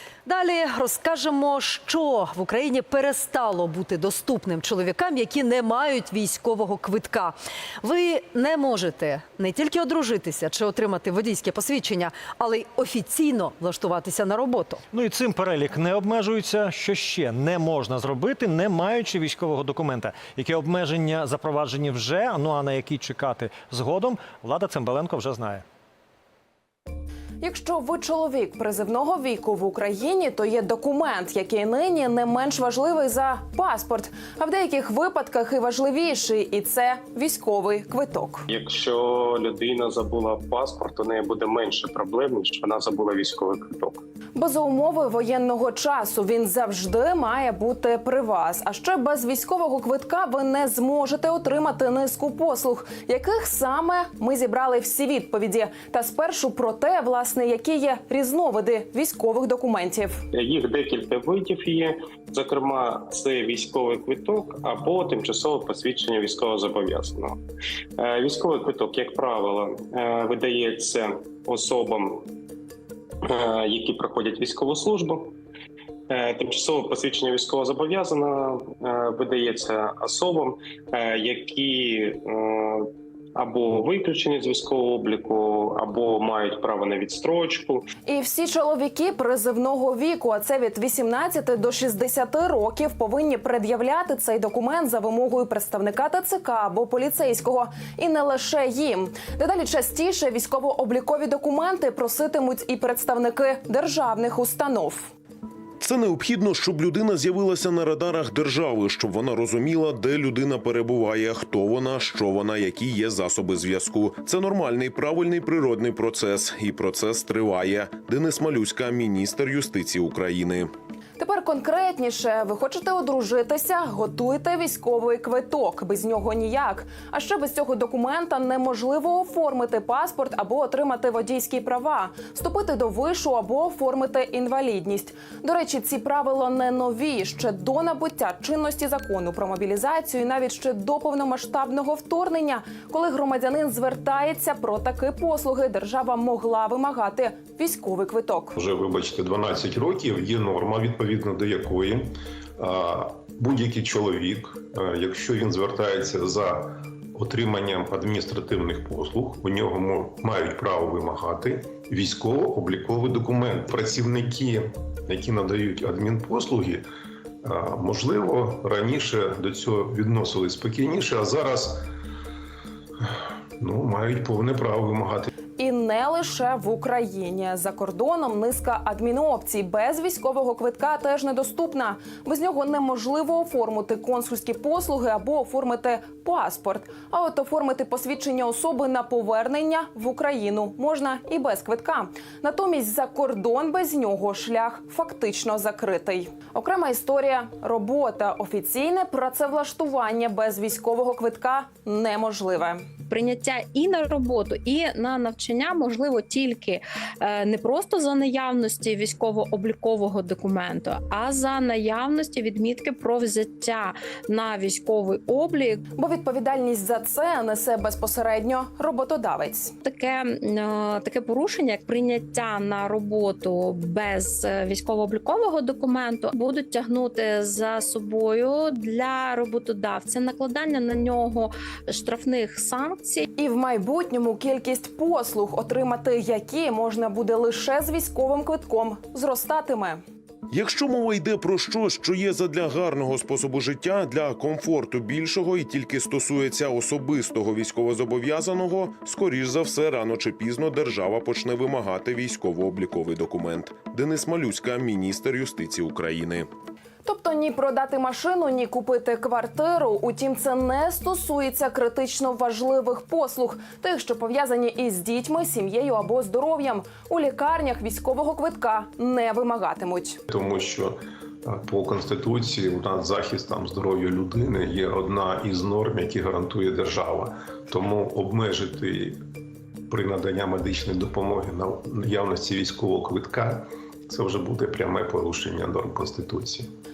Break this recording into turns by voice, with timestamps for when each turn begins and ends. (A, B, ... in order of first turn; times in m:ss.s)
0:00.2-0:14.8 A
0:14.9-0:25.6 B
0:27.4-0:38.4 C
0:38.5-0:44.0 D
0:44.3-1:00.2 C
1:00.3-1:07.4 D
1:08.0-1:12.2 D
1:13.2-1:15.3 D
1:16.1-1:27.9 D
1:28.0-1:45.1 C
1:45.8-2:00.7 E
2:01.2-2:28.6 C
2:28.6-2:46.8 F
2:47.4-2:51.8 F
2:53.6-2:55.3 F
2:55.6-3:22.9 C
3:23.1-3:35.8 G
3:36.0-3:39.7 C
3:39.8-3:53.3 G
3:53.4-4:00.0 C
4:00.5-4:16.5 E
4:17.0-4:30.2 C
4:30.3-4:39.2 F
4:39.9-4:46.7 F